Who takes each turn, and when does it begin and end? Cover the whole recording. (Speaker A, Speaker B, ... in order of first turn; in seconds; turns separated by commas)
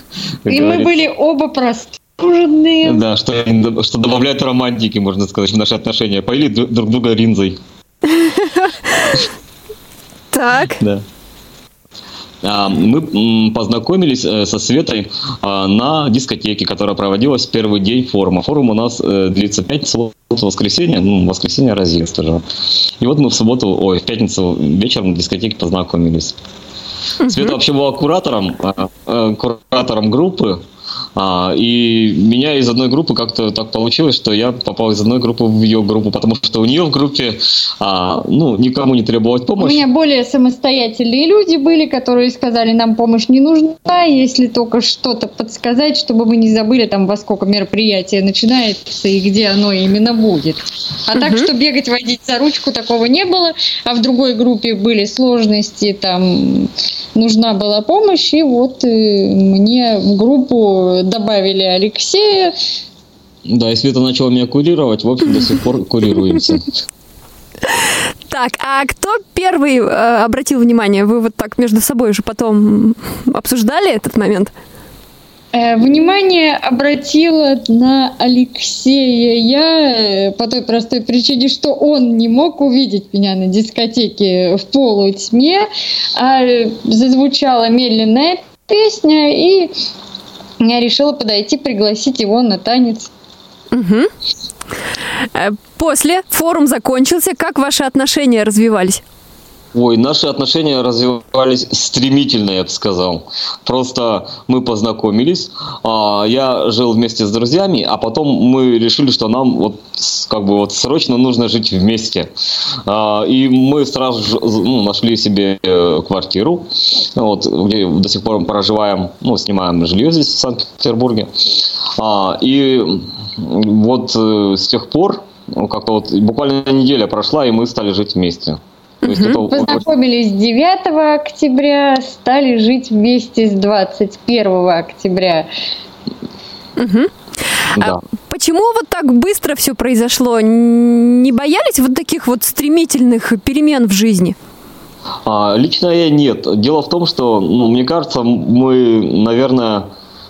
Speaker A: 0.5-1.0, Speaker B: 0.5-3.0, Speaker A: 2.8-7.6, Speaker C: 8.2-9.0, Speaker C: 10.3-10.8, Speaker A: 10.8-11.1, Speaker A: 12.4-22.4, Speaker A: 23.0-26.4, Speaker C: 27.2-27.6, Speaker A: 27.3-30.6, Speaker A: 31.2-39.9, Speaker B: 39.6-62.5, Speaker C: 51.2-51.5, Speaker A: 63.5-66.7, Speaker C: 68.3-74.5, Speaker B: 75.5-89.7, Speaker B: 90.6-93.1, Speaker C: 93.7-94.1, Speaker C: 95.3-99.0, Speaker A: 99.7-112.3, Speaker A: 112.9-129.8, Speaker C: 129.0-129.4, Speaker B: 129.4-135.5, Speaker C: 136.8-137.1, Speaker C: 137.7-144.4, Speaker A: 145.2-149.9